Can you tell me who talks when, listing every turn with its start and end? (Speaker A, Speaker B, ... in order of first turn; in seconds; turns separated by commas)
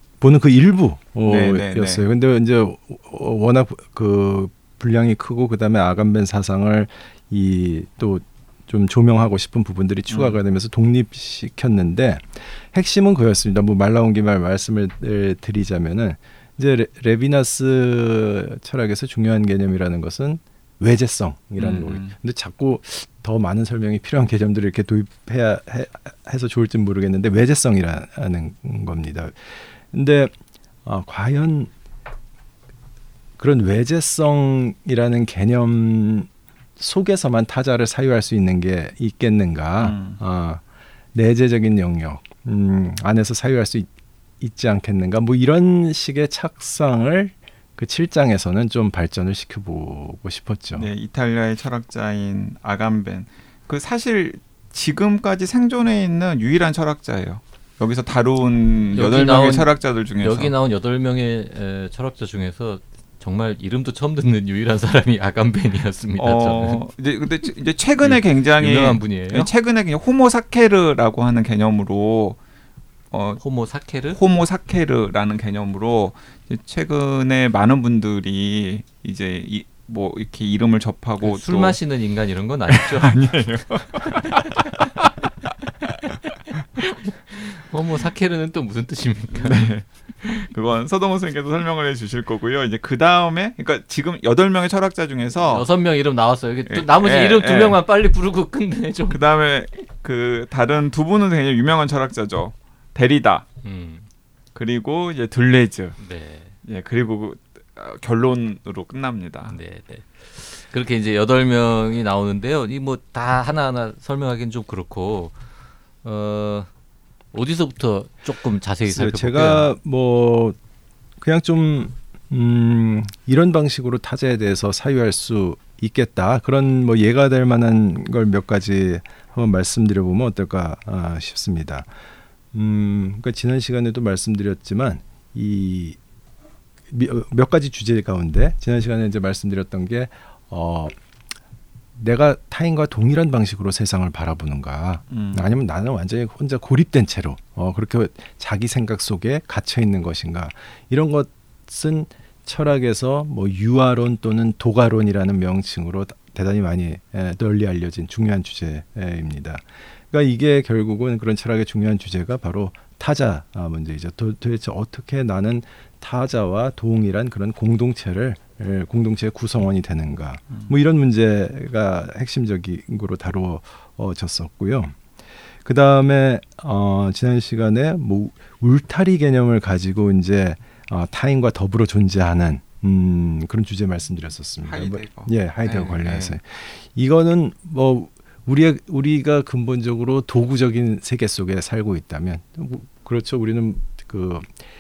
Speaker A: 0.2-30.3, Speaker B: 1.3-2.0, Speaker B: 10.1-10.4, Speaker B: 21.6-22.1, Speaker A: 30.9-31.7, Speaker A: 33.4-40.6, Speaker B: 39.8-40.2, Speaker A: 41.1-50.9, Speaker B: 50.7-60.5, Speaker C: 58.9-66.8, Speaker B: 66.2-72.4, Speaker C: 68.0-69.5, Speaker B: 73.1-73.4, Speaker C: 73.4-74.2, Speaker B: 74.1-81.8, Speaker C: 81.2-83.3, Speaker B: 82.7-85.1, Speaker C: 84.1-84.8, Speaker C: 87.1-89.7, Speaker B: 89.3-95.7, Speaker C: 95.5-99.2, Speaker B: 96.7-97.8, Speaker B: 99.1-103.5, Speaker C: 103.6-104.1, Speaker B: 104.5-106.0, Speaker C: 106.0-106.5, Speaker B: 106.6-109.6, Speaker C: 109.5-115.4, Speaker C: 116.0-116.7, Speaker C: 117.3-119.7, Speaker A: 118.9-120.6, Speaker A: 121.2-131.9, Speaker A: 132.5-136.0, Speaker A: 136.9-140.9, Speaker A: 142.0-175.0, Speaker B: 145.1-145.6, Speaker A: 175.6-194.6, Speaker B: 184.6-186.4